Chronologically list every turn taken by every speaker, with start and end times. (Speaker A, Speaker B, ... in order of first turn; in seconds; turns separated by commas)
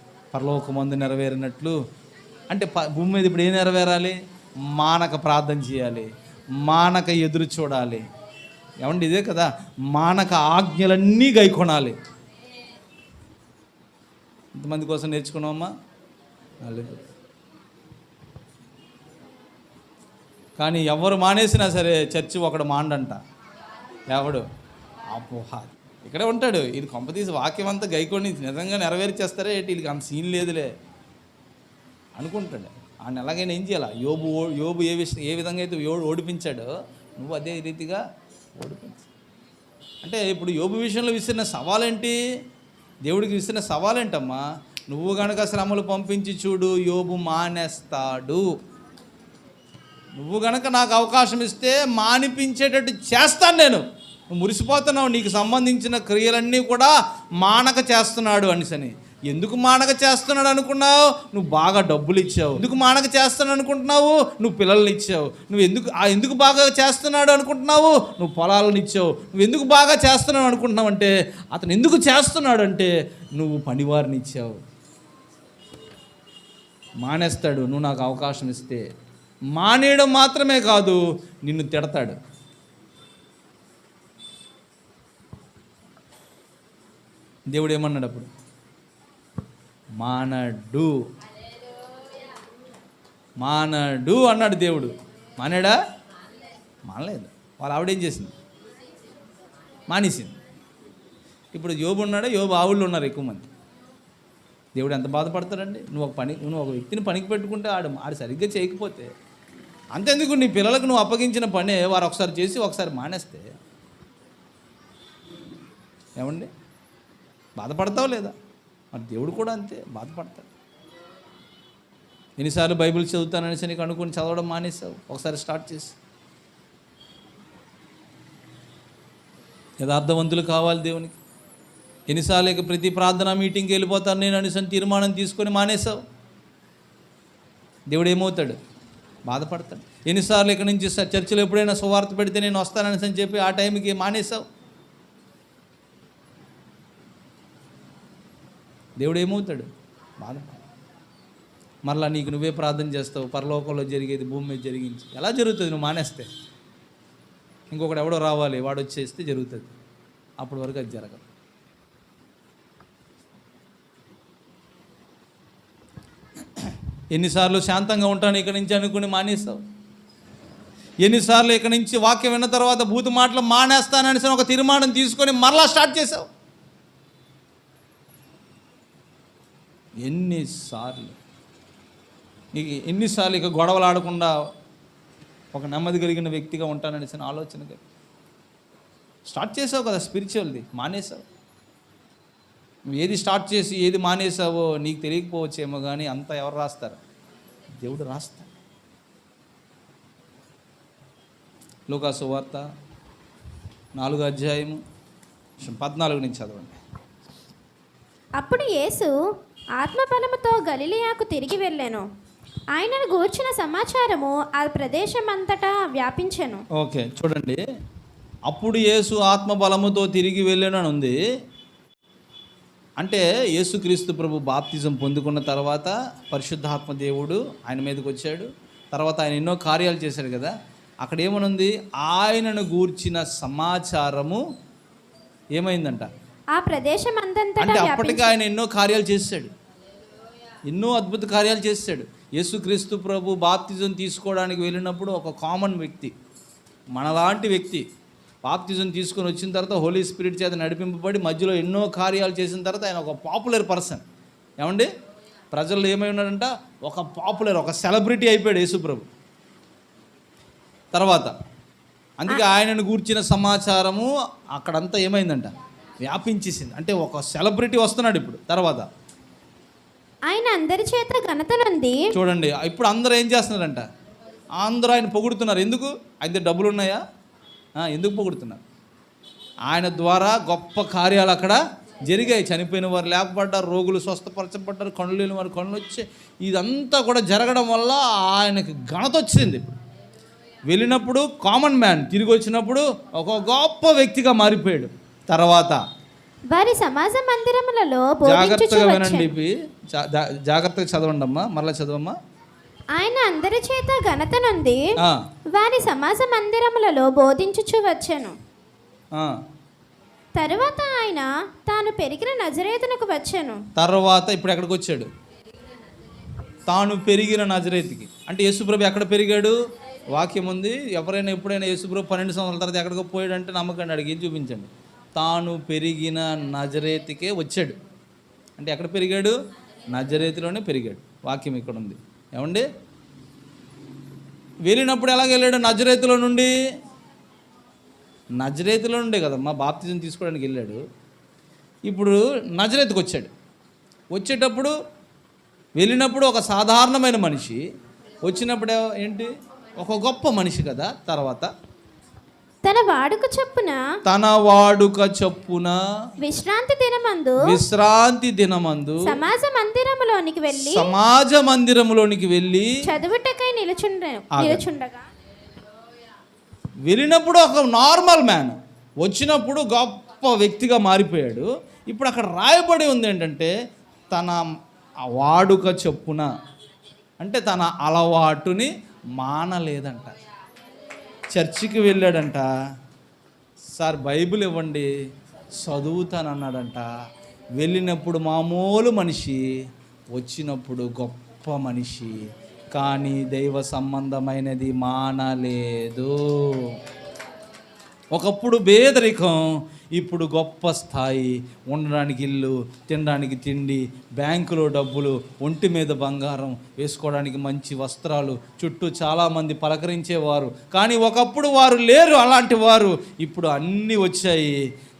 Speaker A: 0.3-1.8, Speaker A: 2.5-4.2, Speaker A: 4.7-8.0, Speaker A: 8.8-11.9, Speaker A: 14.5-15.7, Speaker A: 16.6-17.0, Speaker A: 20.6-23.2, Speaker A: 24.1-24.4, Speaker A: 25.1-30.7, Speaker A: 32.1-38.0, Speaker A: 38.6-39.1, Speaker A: 40.0-42.2, Speaker A: 43.0-48.4, Speaker A: 50.2-74.6, Speaker A: 77.0-78.8, Speaker A: 79.5-82.2, Speaker A: 87.5-88.3, Speaker A: 90.0-91.0, Speaker A: 93.4-95.8, Speaker A: 96.9-98.3, Speaker A: 99.9-100.3, Speaker A: 101.5-103.5, Speaker A: 104.7-109.1, Speaker A: 109.9-113.4, Speaker A: 116.2-116.5, Speaker A: 117.6-118.3, Speaker A: 118.9-120.5, Speaker A: 122.4-126.0, Speaker A: 129.8-131.2, Speaker A: 132.1-136.0, Speaker A: 137.9-138.6, Speaker A: 139.3-144.4, Speaker A: 149.0-149.7, Speaker A: 150.2-150.6, Speaker A: 151.8-156.3, Speaker A: 157.7-159.7, Speaker A: 160.4-161.2, Speaker A: 167.1-169.6, Speaker A: 171.0-176.3, Speaker A: 180.0-181.2, Speaker A: 182.5-184.3, Speaker A: 185.5-187.8, Speaker A: 189.3-191.2, Speaker A: 192.9-197.0, Speaker A: 197.8-198.5, Speaker A: 201.9-202.6, Speaker A: 204.0-204.8, Speaker A: 205.6-206.8, Speaker B: 208.4-209.1, Speaker B: 209.8-212.0, Speaker B: 212.7-216.6, Speaker A: 216.7-217.6, Speaker A: 218.5-221.2, Speaker A: 223.0-230.5, Speaker A: 231.0-234.4, Speaker A: 235.6-236.1, Speaker B: 236.5-238.3, Speaker A: 237.6-239.5, Speaker A: 240.7-246.1, Speaker A: 246.9-247.8, Speaker A: 248.4-254.0, Speaker A: 254.6-254.9, Speaker A: 255.5-259.1, Speaker A: 260.9-261.3, Speaker A: 262.2-265.5, Speaker A: 266.0-268.9, Speaker B: 270.3-272.1, Speaker A: 272.1-273.8, Speaker A: 274.6-277.0, Speaker A: 277.8-278.6, Speaker A: 279.7-289.7, Speaker A: 290.7-295.8, Speaker B: 296.5-299.3, Speaker A: 298.2-302.1, Speaker B: 302.9-304.8, Speaker B: 305.5-308.3, Speaker B: 310.4-313.6, Speaker A: 313.8-315.1, Speaker A: 316.7-319.6, Speaker A: 320.1-327.8, Speaker A: 328.6-329.4, Speaker A: 329.9-332.6, Speaker A: 334.6-336.5, Speaker A: 338.4-340.8, Speaker A: 341.9-343.3, Speaker A: 344.1-344.7, Speaker A: 345.8-347.6, Speaker A: 348.2-351.5, Speaker B: 352.6-353.8, Speaker A: 354.0-355.8, Speaker B: 356.2-357.4, Speaker A: 357.4-359.1, Speaker B: 359.1-360.9, Speaker A: 360.5-362.7, Speaker B: 362.9-365.0, Speaker A: 364.3-364.6, Speaker A: 366.9-373.5, Speaker A: 374.1-374.5, Speaker A: 375.1-376.3, Speaker A: 377.2-380.1, Speaker A: 381.3-382.5, Speaker A: 383.8-384.9, Speaker A: 385.6-386.9, Speaker A: 387.6-389.4, Speaker A: 390.1-392.2, Speaker A: 392.7-396.7, Speaker A: 398.1-399.4, Speaker A: 399.9-414.6